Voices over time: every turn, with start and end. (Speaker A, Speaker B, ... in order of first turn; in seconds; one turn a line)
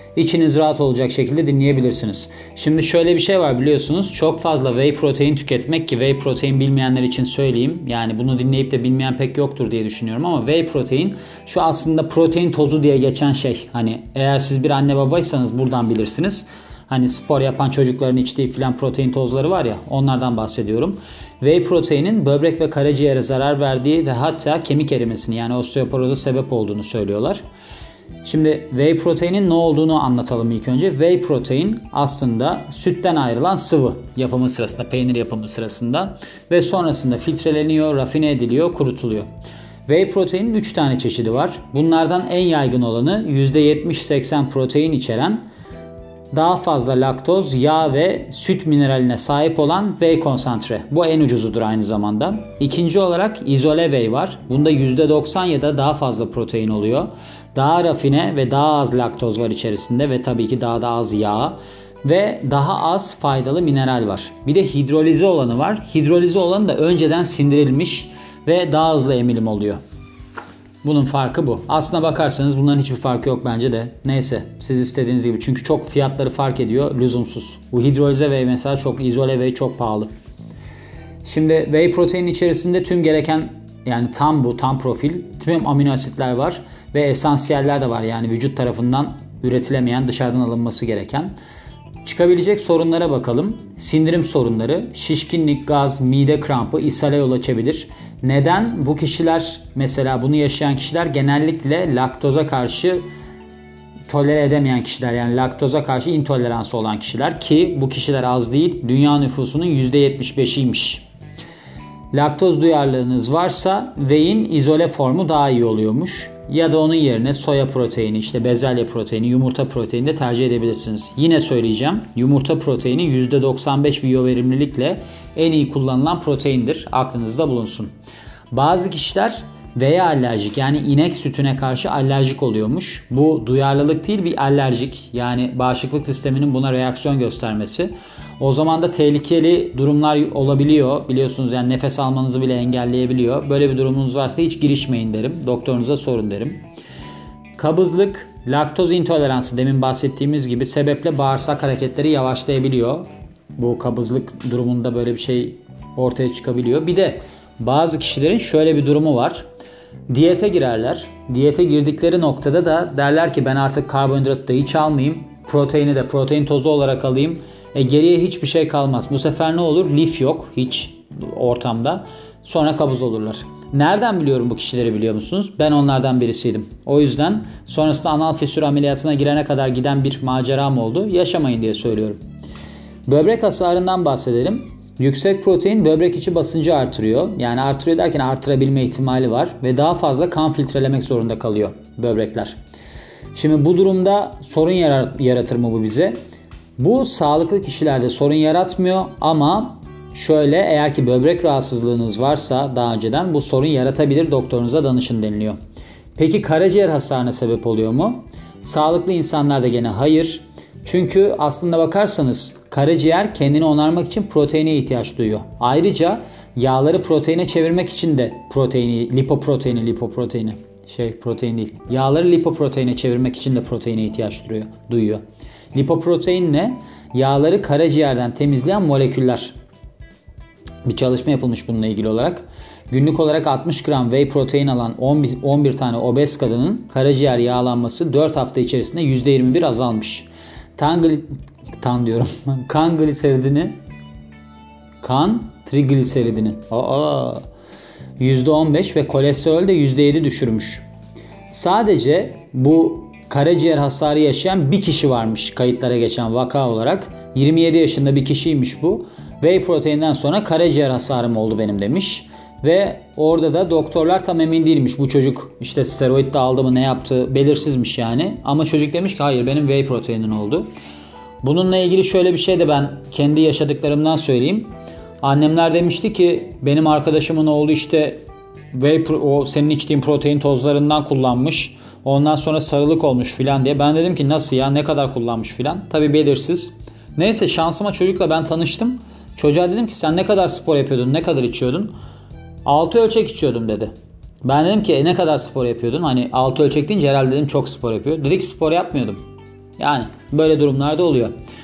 Speaker A: 0.1-27.4
Speaker A: 28.2-39.3
Speaker A: 39.9-45.5
Speaker A: 46.3-69.8
Speaker A: 70.8-80.1
Speaker A: 81.2-91.3
Speaker A: 92.0-103.1
Speaker A: 104.1-111.0
Speaker A: 112.1-127.9
Speaker A: 128.5-146.6
Speaker A: 147.6-159.5
Speaker A: 160.1-182.2
Speaker A: 183.1-192.6
Speaker A: 193.3-196.2
Speaker A: 196.8-205.6
Speaker A: 206.2-225.2
Speaker A: 225.7-229.5
Speaker A: 230.8-243.8
Speaker A: 245.0-247.4
Speaker A: 248.2-250.8
Speaker A: 251.5-270.7
Speaker A: 271.4-274.7
Speaker A: 275.2-291.9
Speaker A: 292.6-293.9
Speaker A: 294.4-299.2
Speaker A: 299.8-301.3